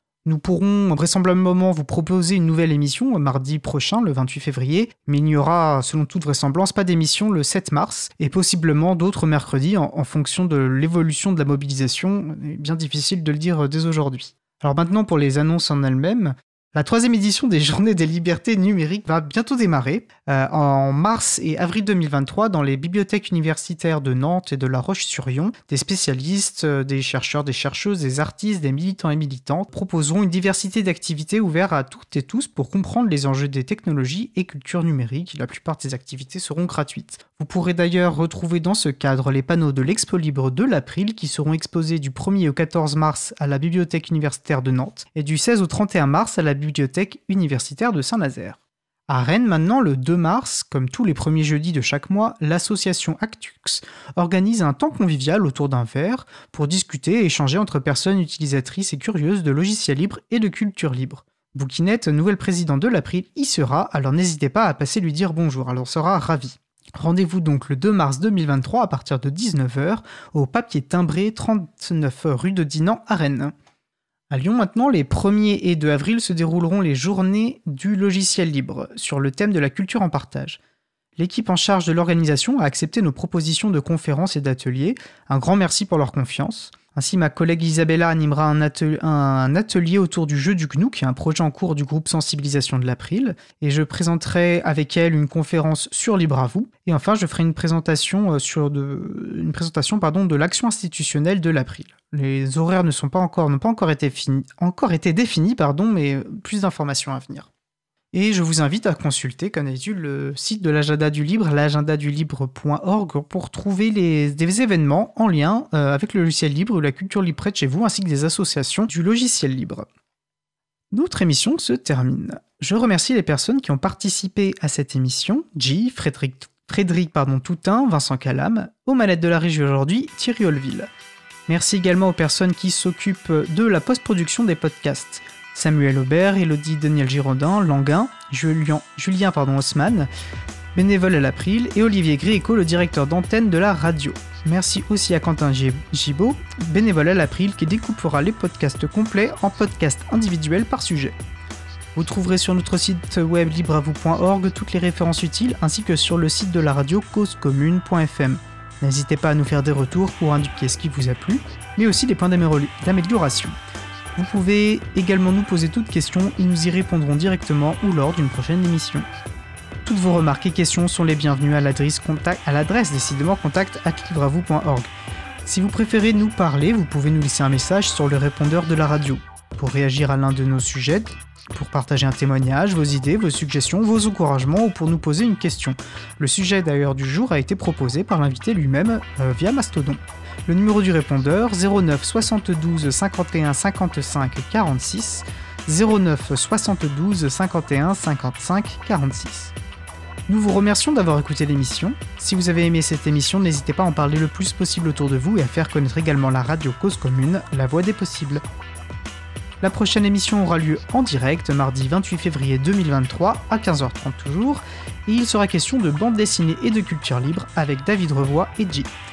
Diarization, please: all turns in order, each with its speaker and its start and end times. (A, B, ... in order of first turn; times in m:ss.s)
0:00.2-0:48.6 A
0:49.1-1:13.5 A
1:14.3-1:20.6 A
1:21.2-1:47.5 A
1:48.1-1:59.8 A
2:00.9-2:10.9 A
2:11.5-2:20.1 A
2:20.7-2:31.2 A
2:32.0-2:43.6 A
2:44.2-2:49.1 A
2:49.8-2:54.9 A
2:55.4-3:19.5 A
3:20.3-3:28.4 A
3:29.6-3:38.9 A